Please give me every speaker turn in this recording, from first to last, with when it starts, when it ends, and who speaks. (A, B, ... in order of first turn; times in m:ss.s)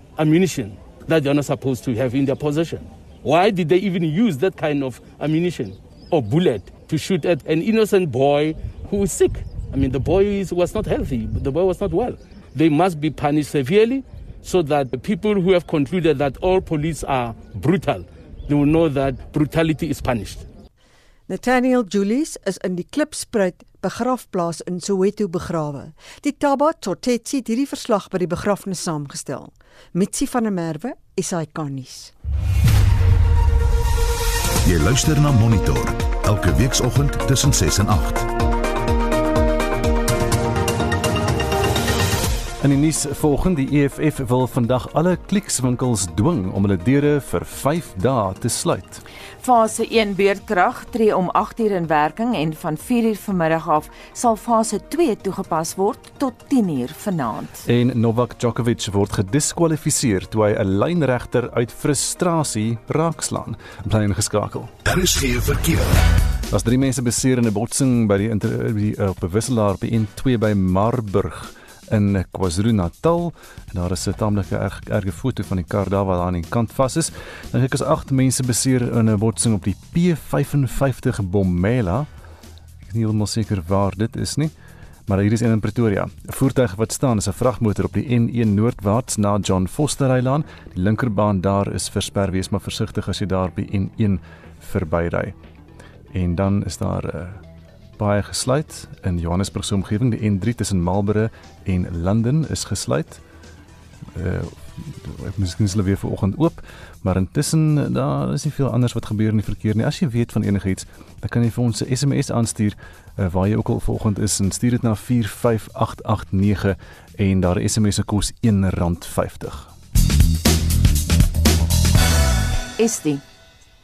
0:00.2-0:20.5 A
0:21.3-0:32.1 B
0:34.6-0:38.3 C
0:42.6-0:49.0 D
0:49.4-0:57.6 E
0:57.6-1:04.7 D
1:04.8-1:06.0 C
1:06.5-1:22.1 D
1:22.9-1:24.5 D
1:25.1-1:35.4 D
1:36.1-1:37.4 D
1:38.0-1:43.2 D
1:44.1-1:59.7 D
2:02.8-2:03.2 E